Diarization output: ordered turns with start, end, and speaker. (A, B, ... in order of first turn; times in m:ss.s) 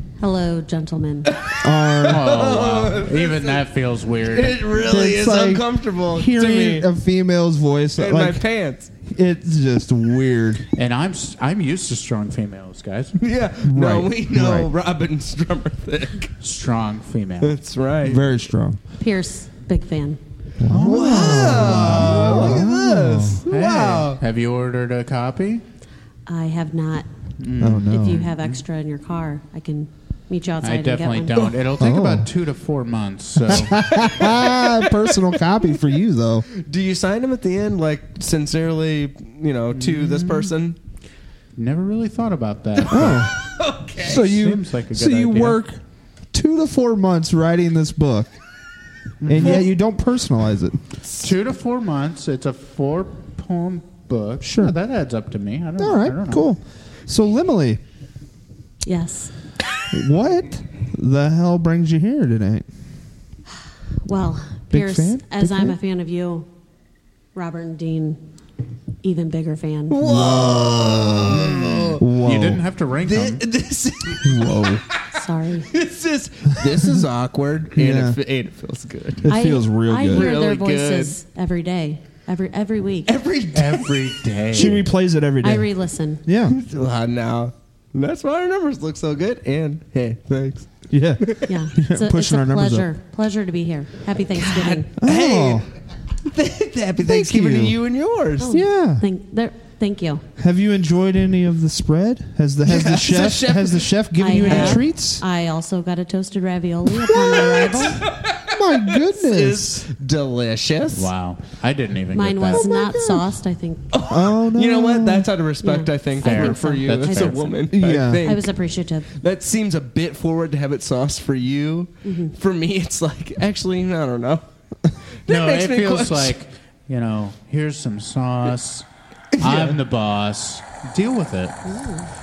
0:00.2-0:01.3 A
0:01.3-0:03.6 B
0:01.6-0:02.6 C
0:02.1-0:04.8 D
0:04.3-0:06.9 B
0:04.8-0:08.4 C
0:08.0-0:08.9 B
0:09.0-0:10.7 C
0:10.8-0:13.2 D
0:13.2-0:16.3 B
0:13.6-0:14.7 C
0:16.4-0:17.6 D
0:17.4-0:18.2 B
0:18.0-0:18.8 C
0:19.0-0:20.2 A
0:20.6-0:23.4 C
0:20.7-0:22.7 D
0:20.8-0:24.2 B
0:23.5-0:25.6 D
0:26.3-0:27.1 A
0:27.4-0:28.6 D
0:27.6-0:28.3 C
0:27.9-0:31.5 A
0:30.6-0:33.9 D
0:31.8-0:32.3 C
0:33.4-0:36.4 C
0:34.2-0:34.6 B
0:36.5-0:40.8 B
0:39.7-0:40.5 D
0:41.6-0:43.3 D
0:42.8-0:44.2 B
0:42.9-0:43.3 C
0:44.0-0:45.8 C
0:44.1-0:45.6 D
0:46.3-0:48.3 C
0:49.2-0:49.7 D
0:49.3-0:50.8 C
0:49.4-0:49.7 B
0:51.2-0:56.5 D
0:54.4-0:54.8 C
0:55.8-0:57.8 C
0:58.8-0:59.3 A
0:59.9-1:02.7 C
1:04.0-1:06.5 A
1:04.7-1:05.8 C
1:07.4-1:08.2 A
1:09.0-1:10.0 A
1:09.9-1:12.0 B
1:10.0-1:12.6 C
1:11.3-1:13.4 D
1:13.0-1:14.7 B
1:14.2-1:14.8 C
1:15.1-1:15.7 A
1:15.7-1:19.3 B
1:17.8-1:18.2 C
1:19.2-1:20.3 C
1:19.3-1:23.2 A
1:20.1-1:21.2 B
1:23.1-1:24.0 B
1:23.5-1:24.9 D
1:24.5-1:25.7 C
1:25.4-1:26.2 A
1:26.2-1:26.6 C
1:26.5-1:31.5 B
1:30.9-1:32.9 C
1:31.5-1:34.9 A
1:34.3-1:35.7 B
1:35.0-1:35.7 C
1:36.2-1:38.5 B
1:37.0-1:37.8 C
1:38.4-1:40.2 A
1:38.5-1:39.0 C
1:40.4-1:45.2 C
1:42.6-1:44.8 B
1:44.2-1:48.0 A
1:47.5-1:51.1 B
1:48.4-1:49.8 C
1:50.9-1:52.7 D
1:52.1-1:53.9 A
1:52.6-1:53.3 C
1:53.9-1:58.5 B
1:54.1-1:55.3 C
1:55.6-1:57.6 A
1:56.2-1:57.4 D
1:57.7-1:58.2 C
1:58.2-1:59.1 A
1:59.1-2:04.4 B
2:02.0-2:02.4 A
2:05.2-2:06.3 B
2:05.3-2:08.9 D
2:09.4-2:09.8 B
2:09.4-2:11.6 D
2:11.7-2:12.1 A